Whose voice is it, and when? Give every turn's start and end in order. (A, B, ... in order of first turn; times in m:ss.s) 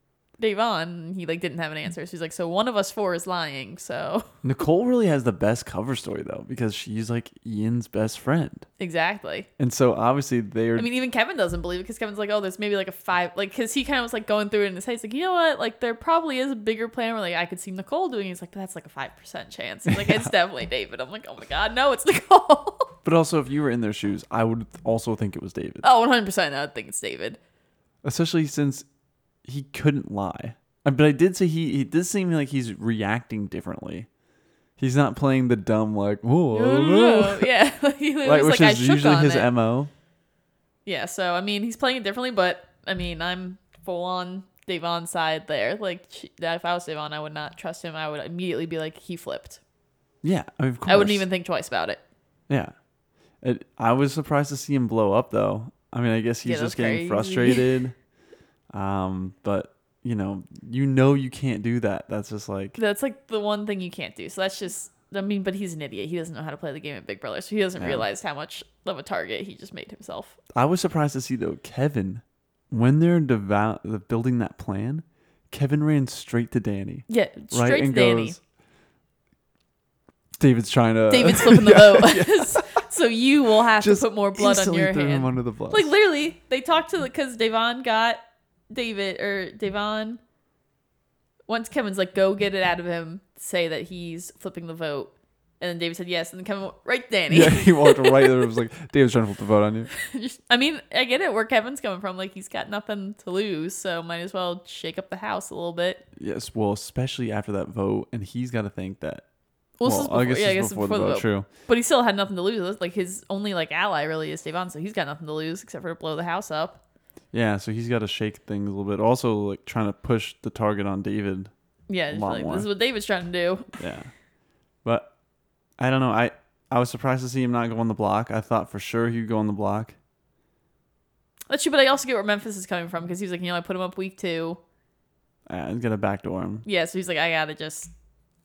0:00.4-0:04.3 A
0:04.4-0:08.6 B
0:08.8-0:09.5 A
0:09.6-0:10.9 B
0:10.8-0:23.0 A
0:19.9-0:20.3 B
0:23.0-0:25.8 B
0:25.8-0:27.4 A
0:28.0-0:28.8 B
0:29.4-0:34.1 B
0:34.8-0:37.5 B
0:36.5-0:39.5 A
0:38.2-0:39.9 B
0:40.8-0:49.6 A
0:50.2-0:51.2 B
0:50.9-0:52.0 A
0:53.4-0:58.0 B
0:56.4-0:57.7 A
0:58.7-1:02.8 B
1:02.8-1:10.4 A
1:07.8-1:08.0 B
1:10.5-1:18.4 B
1:17.1-1:18.4 A
1:20.4-1:22.7 B
1:21.1-1:30.2 A
1:23.8-1:25.9 B
1:31.5-1:38.5 A
1:37.3-1:39.9 B
1:39.9-1:46.0 A
1:46.2-1:49.2 B
1:49.8-1:56.8 A
1:49.8-1:51.5 B
1:57.3-2:01.5 B
2:01.9-2:03.7 A
2:02.1-2:02.7 B
2:03.8-2:04.1 B
2:04.8-2:05.1 B
2:05.8-2:10.0 B
2:11.5-2:14.6 A
2:15.5-2:16.6 B
2:16.6-2:17.9 A